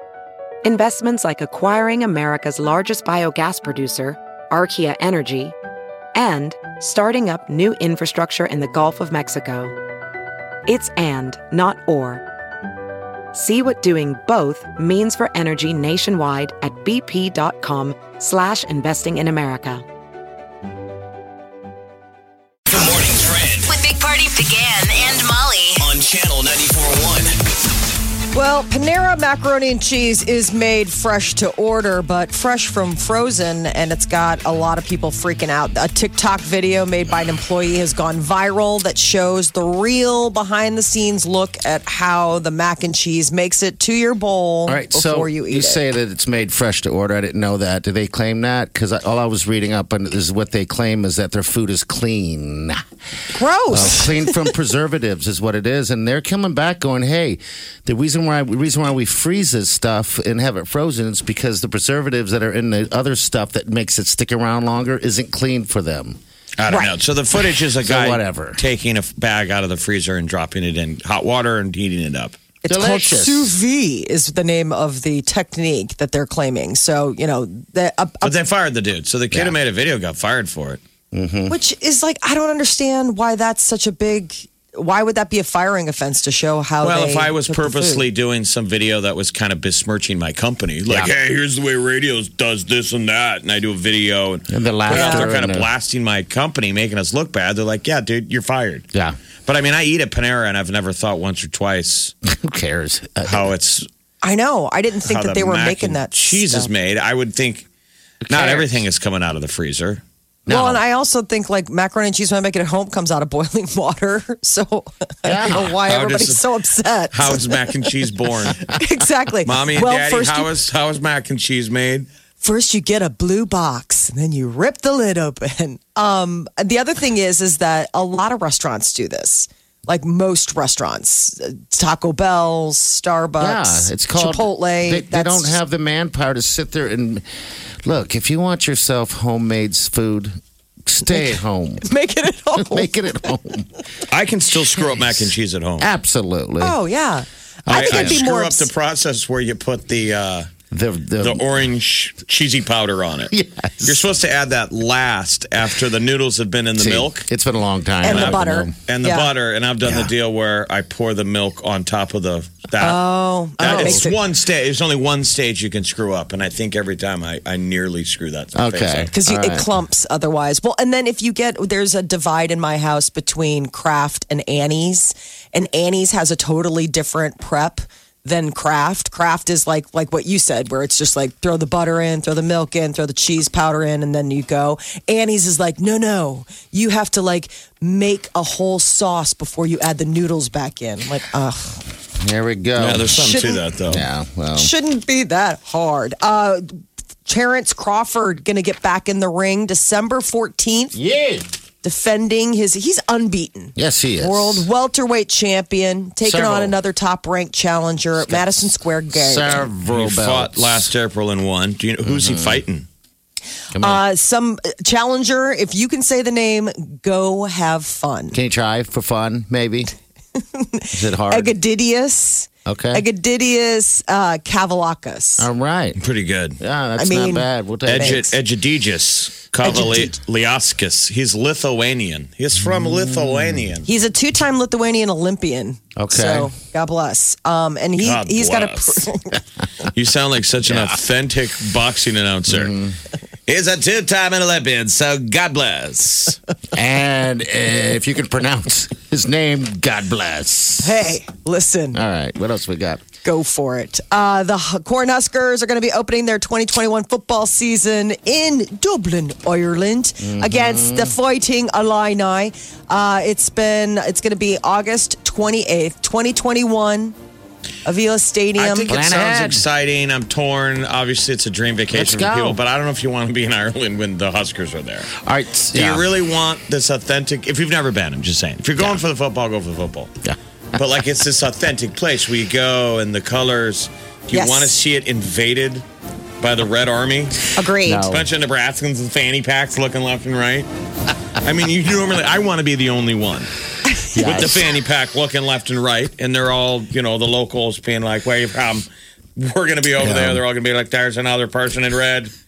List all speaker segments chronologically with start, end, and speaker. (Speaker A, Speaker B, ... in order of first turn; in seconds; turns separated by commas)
Speaker A: 0.7-5.5, Speaker A: 6.2-9.7, Speaker A: 10.7-12.2, Speaker A: 13.3-19.8, Speaker B: 22.7-23.7, Speaker C: 23.8-25.8, Speaker B: 25.8-27.4, Speaker D: 28.3-45.8, Speaker E: 44.7-52.8, Speaker D: 53.3-54.5, Speaker E: 53.7-66.2, Speaker F: 66.6-72.4, Speaker D: 66.7-67.0, Speaker E: 67.8-68.6, Speaker D: 72.6-78.4, Speaker E: 72.7-73.5, Speaker F: 78.2-80.8, Speaker E: 79.3-79.6, Speaker E: 81.1-81.6, Speaker D: 81.5-88.1, Speaker F: 86.8-98.9, Speaker E: 94.5-95.7, Speaker D: 94.9-95.3, Speaker F: 99.5-102.1, Speaker E: 102.3-103.5, Speaker F: 103.2-103.9, Speaker D: 104.2-106.7, Speaker F: 105.0-107.7, Speaker E: 108.2-108.8, Speaker F: 108.3-110.0, Speaker E: 110.5-110.8, Speaker D: 110.5-117.8, Speaker E: 115.2-115.8, Speaker F: 115.6-116.5, Speaker F: 117.1-118.7, Speaker D: 118.7-120.5, Speaker F: 119.4-122.1, Speaker D: 122.4-135.6, Speaker E: 133.4-137.2, Speaker E: 137.8-141.9, Speaker D: 141.0-143.0, Speaker E: 142.6-143.7, Speaker F: 144.1-145.9, Speaker E: 144.8-145.3, Speaker E: 145.8-146.8, Speaker D: 146.6-148.7, Speaker E: 147.7-148.2, Speaker F: 147.7-150.5, Speaker E: 150.7-151.4, Speaker F: 151.2-153.3, Speaker E: 153.3-154.1, Speaker F: 153.8-157.3, Speaker E: 156.8-158.8, Speaker D: 158.0-159.3, Speaker F: 158.0-163.0, Speaker E: 159.8-160.1, Speaker D: 162.8-164.2, Speaker E: 163.6-164.1, Speaker F: 163.6-169.1, Speaker E: 168.5-169.7, Speaker D: 169.1-191.8, Speaker E: 192.2-193.2, Speaker F: 192.8-194.1, Speaker D: 193.2-193.6, Speaker E: 193.9-194.7, Speaker D: 194.6-201.0, Speaker E: 200.9-201.4, Speaker D: 201.8-209.7, Speaker E: 203.8-204.7, Speaker E: 206.2-206.8, Speaker E: 208.2-210.9, Speaker F: 209.9-212.9, Speaker E: 212.1-212.6, Speaker E: 213.7-214.0, Speaker D: 213.8-218.4, Speaker E: 218.3-219.9, Speaker D: 220.5-225.5, Speaker E: 220.9-221.5, Speaker E: 222.7-223.0, Speaker E: 225.4-226.0, Speaker F: 226.0-226.6, Speaker E: 226.6-228.3, Speaker D: 227.0-228.3, Speaker F: 227.9-233.9, Speaker D: 229.6-230.1, Speaker E: 232.6-233.7, Speaker D: 233.8-239.4, Speaker E: 236.0-236.5, Speaker F: 238.0-239.0, Speaker F: 239.9-242.7, Speaker E: 240.7-240.9, Speaker E: 242.5-243.0, Speaker F: 243.5-246.4, Speaker E: 246.7-251.0, Speaker D: 250.8-252.0, Speaker E: 251.9-253.0, Speaker D: 253.2-267.1, Speaker E: 260.2-261.1, Speaker D: 267.9-269.0, Speaker F: 268.6-275.1, Speaker E: 268.9-269.7, Speaker E: 271.9-272.6, Speaker E: 275.1-276.1, Speaker F: 275.7-280.1, Speaker E: 280.2-280.8, Speaker F: 280.8-285.9, Speaker D: 284.3-284.8, Speaker F: 286.4-287.4, Speaker D: 287.6-288.1, Speaker E: 287.8-288.3, Speaker F: 287.9-290.7, Speaker F: 291.4-293.5, Speaker E: 294.1-294.7, Speaker F: 294.2-298.9, Speaker F: 299.4-302.3, Speaker E: 300.0-300.4